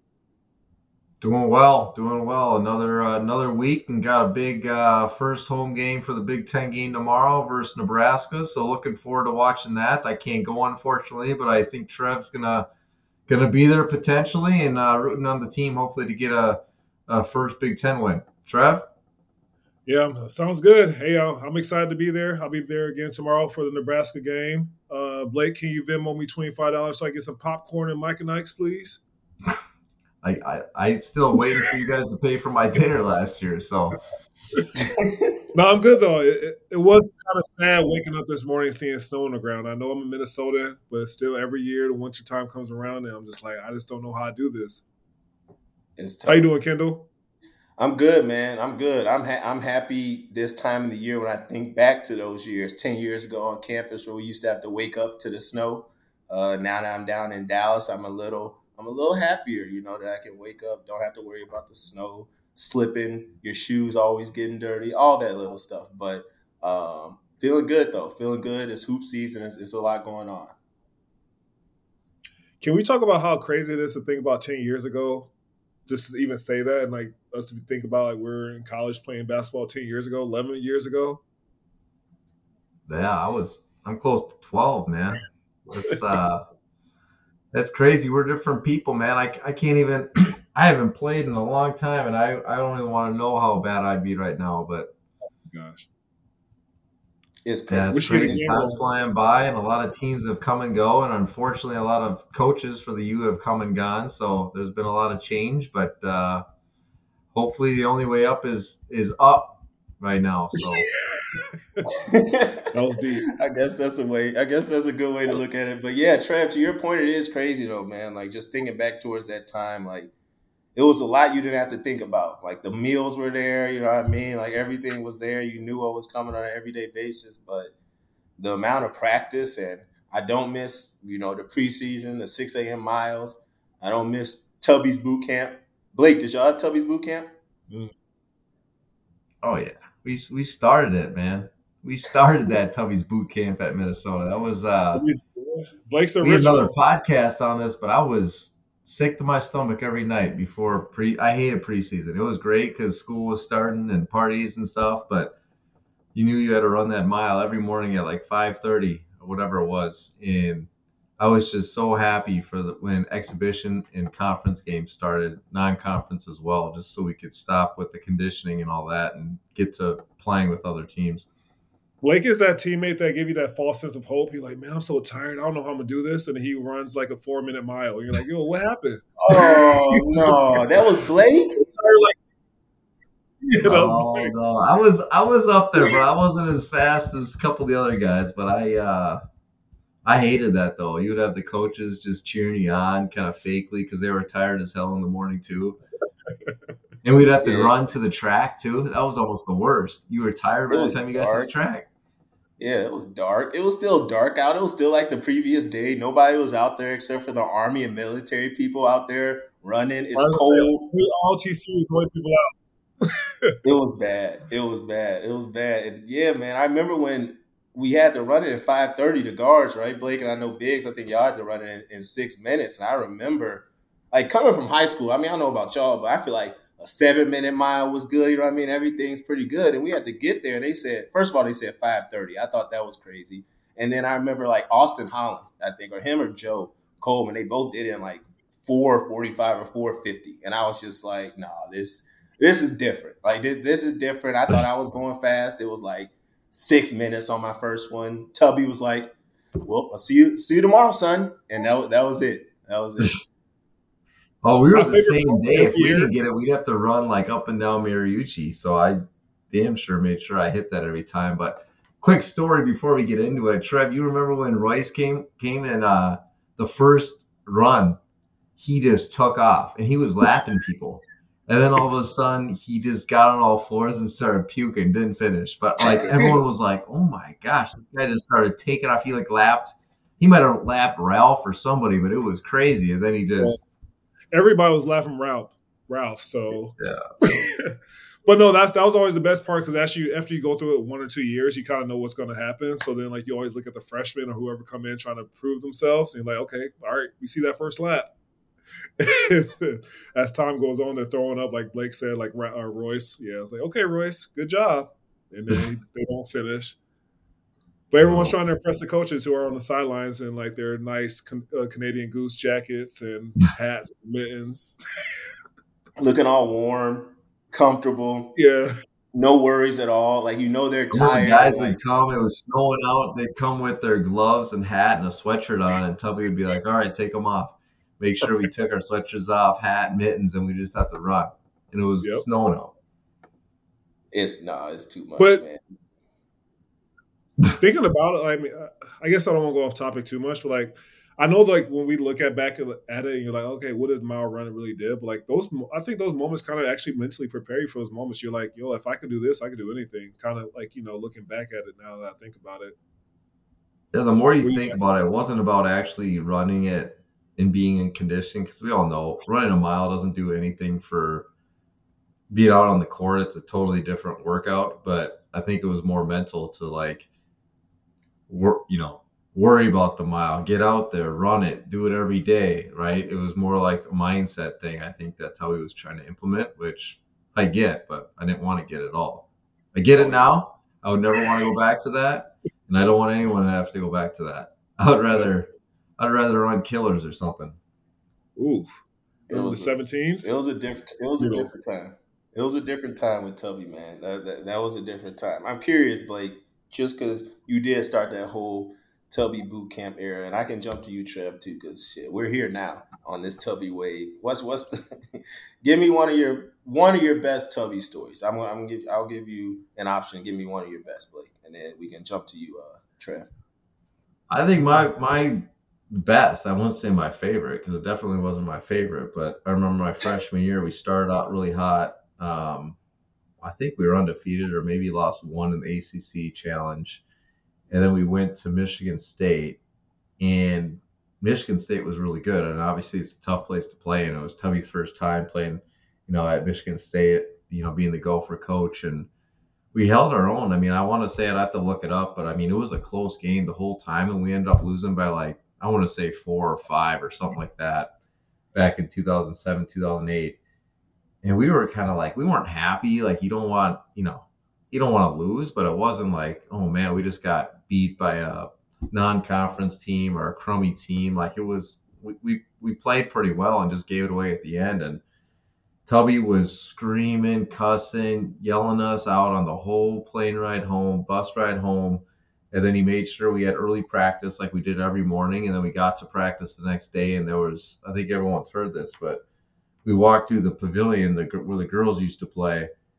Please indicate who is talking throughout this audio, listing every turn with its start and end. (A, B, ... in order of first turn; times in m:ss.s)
0:01.2-0:12.7 A
0:13.3-0:18.8 A
0:19.8-0:29.0 B
0:30.2-0:34.0 A
0:34.9-0:35.4 C
0:35.5-0:44.8 B
0:46.0-0:46.5 C
0:46.3-0:47.1 B
0:47.8-1:10.5 C
1:12.6-1:15.3 B
1:15.9-1:21.2 B
1:22.9-1:26.4 A
1:27.5-1:34.9 A
1:35.5-1:35.9 B
1:37.4-1:38.6 C
1:37.7-1:46.4 A
1:37.9-1:38.8 B
1:47.3-1:50.9 A
1:51.9-1:52.7 C
1:52.7-1:53.3 B
1:53.3-2:00.1 C
2:00.7-2:07.7 C
2:08.4-2:17.3 C
2:19.4-2:25.0 A
2:24.9-2:26.7 B
2:26.2-2:35.3 A
2:36.1-2:51.2 A
2:52.0-3:00.8 B
2:59.2-3:01.5 C
3:01.6-3:02.2 B
3:03.5-3:04.3 B
3:03.6-3:09.2 A
3:10.0-3:15.8 A
3:17.0-3:21.9 A
3:17.4-3:17.7 C
3:20.7-3:21.5 C
3:22.6-3:30.8 C
3:30.1-3:32.5 B
3:33.0-3:33.5 B
3:33.6-4:13.2 C
4:14.4-4:19.0 A
4:14.7-4:16.1 B
4:19.5-4:28.0 A
4:28.6-4:43.6 A
4:36.0-4:36.3 C
4:44.3-4:58.1 B
4:46.8-4:47.0 A
4:59.0-5:06.8 B
5:07.9-5:14.8 B
5:08.0-5:08.3 A
5:16.0-5:18.4 C
5:18.4-5:18.7 B
5:19.1-5:21.8 C
5:20.9-5:32.7 A
5:34.1-5:35.6 C
5:35.2-5:35.4 B
5:37.6-5:52.8 B
5:53.9-6:01.3 A
5:54.4-5:54.8 B
6:02.3-6:07.1 A
6:08.3-6:27.6 A
6:20.0-6:20.2 C
6:28.4-6:28.7 B
6:29.3-6:53.3 C
6:29.3-6:30.3 B
6:31.2-6:31.5 B
6:54.3-7:02.8 A
7:03.4-7:07.0 A
7:07.7-7:09.6 A
7:10.2-7:19.1 A
7:19.7-7:27.9 A
7:28.5-7:30.4 A
7:31.2-7:45.0 A
7:45.8-7:59.2 A
7:59.8-8:02.7 A